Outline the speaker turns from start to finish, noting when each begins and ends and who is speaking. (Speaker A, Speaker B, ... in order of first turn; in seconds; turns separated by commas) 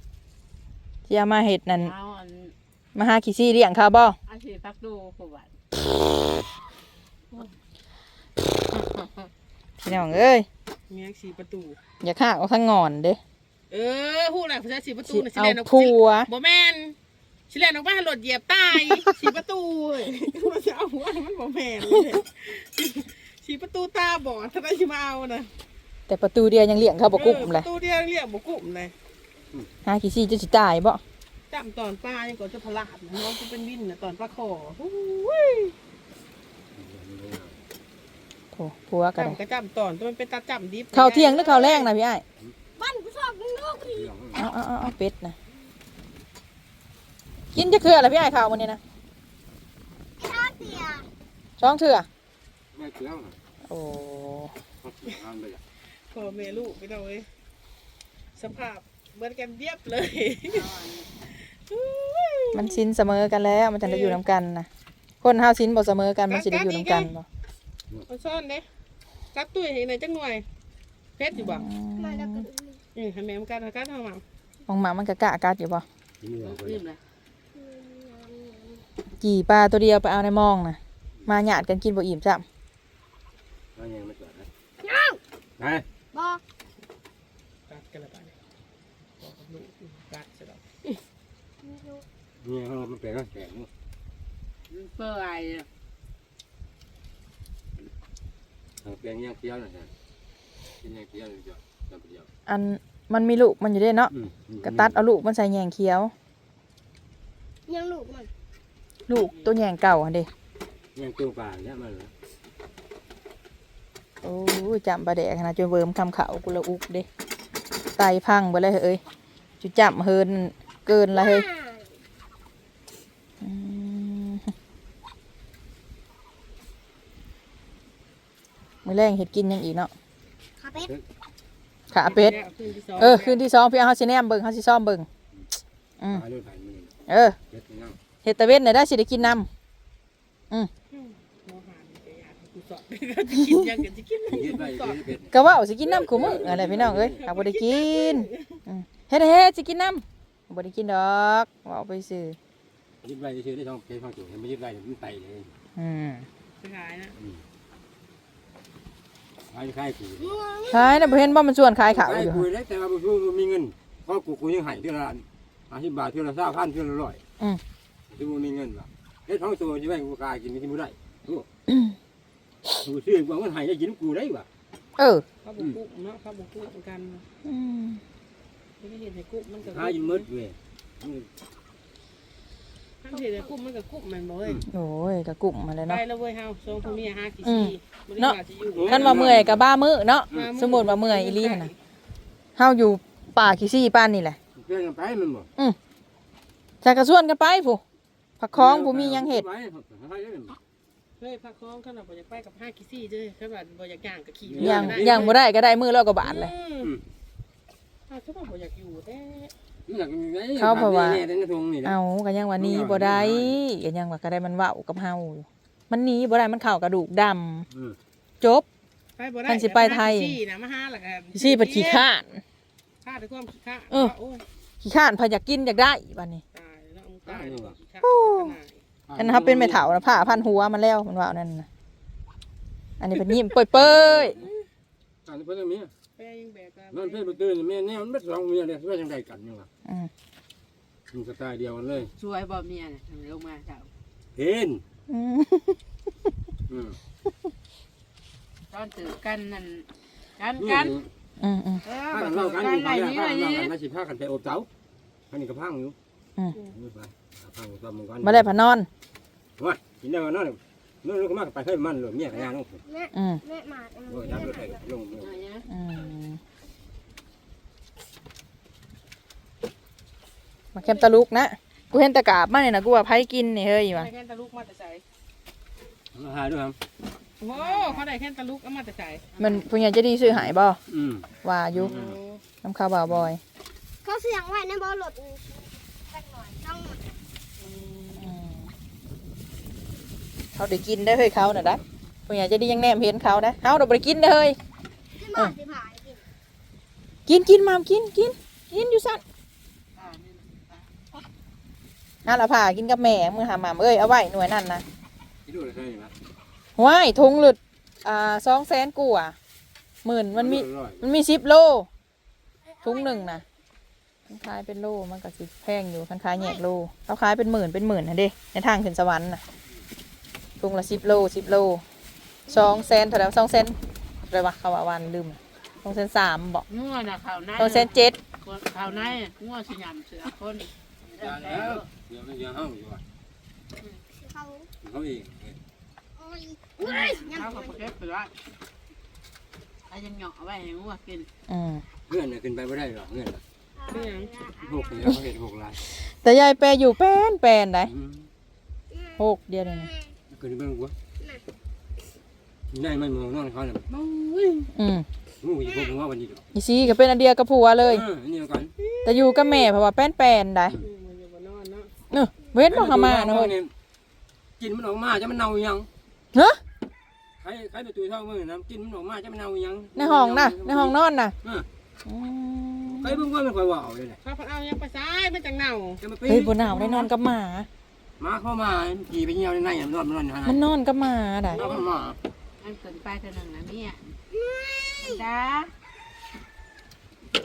Speaker A: 1.1-1.9, Speaker B: 1.8-2.5, Speaker A: 3.0-4.2, Speaker B: 4.3-5.5, Speaker B: 8.8-9.1, Speaker A: 9.8-10.5, Speaker C: 9.9-10.2, Speaker D: 10.9-11.8, Speaker A: 12.0-13.2, Speaker D: 13.7-17.0, Speaker A: 15.1-16.3, Speaker D: 17.5-25.5, Speaker A: 26.1-27.7, Speaker D: 27.1-28.9, Speaker A: 29.9-31.0, Speaker D: 31.5-35.8, Speaker C: 36.8-37.6, Speaker A: 38.5-39.4, Speaker D: 39.2-41.9, Speaker A: 40.9-42.2, Speaker E: 42.8-44.1, Speaker C: 43.9-44.5, Speaker A: 44.4-45.4, Speaker A: 47.5-48.8, Speaker E: 50.2-51.1, Speaker A: 51.6-52.1, Speaker C: 52.7-53.4, Speaker A: 53.6-54.5, Speaker C: 54.8-55.6, Speaker D: 55.9-57.3, Speaker D: 58.4-62.8, Speaker B: 60.4-61.1, Speaker A: 62.5-64.7, Speaker D: 63.8-64.2, Speaker A: 65.2-67.3, Speaker D: 66.3-67.1, Speaker D: 68.1-68.7, Speaker D: 69.3-70.5, Speaker D: 71.2-71.7, Speaker A: 71.3-72.5, Speaker E: 72.0-72.8, Speaker D: 73.0-74.2, Speaker A: 74.7-75.8, Speaker C: 76.2-76.8, Speaker B: 76.4-77.0, Speaker E: 77.5-78.8, Speaker A: 79.2-82.5, Speaker C: 83.8-84.5, Speaker E: 84.8-85.2, Speaker C: 85.6-85.9, Speaker E: 86.1-86.4, Speaker D: 87.7-88.3, Speaker D: 89.2-91.0, Speaker E: 91.6-92.0, Speaker C: 92.4-93.7, Speaker B: 94.7-95.7, Speaker C: 98.8-99.9, Speaker C: 100.8-102.3, Speaker A: 102.5-104.1, Speaker C: 104.1-105.0, Speaker A: 104.6-106.1, Speaker E: 107.7-108.3, Speaker A: 109.1-110.3, Speaker C: 111.0-112.1, Speaker A: 114.2-117.1, Speaker A: 118.0-119.0, Speaker A: 119.6-121.5, Speaker E: 121.2-121.9, Speaker A: 123.4-124.5, Speaker A: 128.8-129.9, Speaker E: 130.6-130.9, Speaker A: 131.9-132.4, Speaker D: 132.0-133.4, Speaker A: 133.0-135.1, Speaker C: 136.1-137.0, Speaker A: 137.1-137.4, Speaker C: 137.5-138.0, Speaker A: 138.2-139.5, Speaker D: 140.9-145.0, Speaker C: 144.3-147.2, Speaker A: 145.3-152.4, Speaker D: 147.2-148.6, Speaker C: 153.0-155.5, Speaker A: 155.8-156.3, Speaker D: 156.6-157.1, Speaker C: 157.2-157.4, Speaker C: 159.5-160.4, Speaker E: 160.3-161.3, Speaker A: 160.7-162.5, Speaker C: 161.8-167.2, Speaker C: 168.1-171.5, Speaker C: 172.8-174.5, Speaker A: 175.0-175.3, Speaker D: 175.4-177.2, Speaker A: 177.4-178.0, Speaker D: 178.8-180.2, Speaker C: 179.6-181.3, Speaker D: 183.0-184.7, Speaker A: 184.7-186.0, Speaker D: 185.9-189.3, Speaker A: 187.4-188.4, Speaker C: 188.7-189.7, Speaker A: 188.9-191.7, Speaker D: 190.3-191.8, Speaker A: 192.6-194.4, Speaker C: 194.6-195.5, Speaker A: 196.8-197.8, Speaker A: 198.4-199.4, Speaker C: 198.5-200.6, Speaker D: 201.2-205.3, Speaker C: 204.5-205.4, Speaker A: 204.6-206.5, Speaker D: 206.2-206.9, Speaker D: 208.1-209.5, Speaker C: 209.9-212.0, Speaker A: 210.6-211.2, Speaker A: 211.8-217.7, Speaker C: 212.6-213.6, Speaker C: 217.7-218.0, Speaker A: 218.4-218.7, Speaker D: 219.2-222.1, Speaker A: 219.5-220.4, Speaker A: 221.3-222.4, Speaker D: 223.0-224.4, Speaker A: 224.8-226.4, Speaker D: 226.5-228.8, Speaker C: 227.3-227.8, Speaker A: 228.0-228.6, Speaker C: 229.1-229.9, Speaker A: 229.2-231.7, Speaker A: 233.0-234.4, Speaker C: 233.2-234.5, Speaker C: 235.3-235.9, Speaker D: 236.2-237.4, Speaker C: 236.9-239.7, Speaker A: 239.8-240.1, Speaker C: 241.1-242.1, Speaker B: 242.0-243.9, Speaker C: 244.4-244.8, Speaker A: 245.1-245.8, Speaker C: 246.7-247.0, Speaker B: 248.7-251.0, Speaker C: 250.6-251.1, Speaker A: 251.4-251.8, Speaker B: 251.8-253.7, Speaker C: 252.1-254.7, Speaker C: 255.3-256.0, Speaker C: 256.7-258.5, Speaker A: 258.2-258.9, Speaker C: 259.6-262.8, Speaker E: 262.9-264.8, Speaker A: 263.1-263.4, Speaker C: 264.1-265.3, Speaker B: 265.2-265.7, Speaker A: 265.7-266.4, Speaker A: 270.8-274.1, Speaker D: 273.9-275.0, Speaker C: 276.1-276.8, Speaker D: 277.4-279.3, Speaker B: 277.5-278.1, Speaker B: 279.3-279.7, Speaker A: 279.4-280.8, Speaker C: 280.2-282.2, Speaker A: 281.4-282.0, Speaker D: 281.9-282.4, Speaker A: 282.6-283.4, Speaker E: 284.0-287.2, Speaker D: 287.6-288.4, Speaker A: 288.2-288.7, Speaker A: 290.5-294.6, Speaker E: 295.1-296.2, Speaker A: 297.3-299.2, Speaker B: 300.0-300.9, Speaker A: 302.2-304.8, Speaker C: 305.5-306.1, Speaker A: 306.8-309.4, Speaker A: 310.0-311.9, Speaker C: 310.3-311.1, Speaker E: 312.6-313.4, Speaker A: 312.8-313.4, Speaker A: 314.3-319.4, Speaker E: 316.3-316.6, Speaker A: 320.6-321.8, Speaker A: 322.5-323.8, Speaker E: 322.5-322.9, Speaker A: 324.3-326.7, Speaker B: 326.7-331.9, Speaker A: 327.6-328.2, Speaker C: 331.1-333.0, Speaker E: 334.1-334.7, Speaker C: 334.8-335.6, Speaker E: 336.2-337.8, Speaker B: 336.8-338.4, Speaker B: 339.9-341.3, Speaker A: 341.5-341.8, Speaker C: 342.1-343.4, Speaker E: 343.8-345.1, Speaker D: 343.9-344.3, Speaker C: 344.6-345.8, Speaker A: 346.0-347.9, Speaker C: 347.9-348.3, Speaker E: 348.9-349.2, Speaker A: 349.2-349.9, Speaker E: 349.8-350.1, Speaker C: 350.3-350.9, Speaker C: 352.7-354.7, Speaker A: 354.7-355.1, Speaker C: 355.4-356.4, Speaker A: 356.5-358.1, Speaker C: 357.9-358.7, Speaker D: 358.8-359.7, Speaker A: 359.0-360.8, Speaker D: 360.8-361.9, Speaker A: 362.1-363.5, Speaker C: 362.7-363.7, Speaker C: 364.6-365.9, Speaker A: 366.3-366.6, Speaker C: 367.4-371.7, Speaker A: 369.9-371.3, Speaker A: 372.1-373.2, Speaker C: 372.9-374.2, Speaker D: 374.2-376.0, Speaker C: 376.0-377.1, Speaker A: 376.3-377.7, Speaker C: 378.2-380.7, Speaker A: 380.4-381.7, Speaker C: 381.5-382.2, Speaker B: 382.6-384.2, Speaker E: 384.3-385.2, Speaker B: 385.0-385.7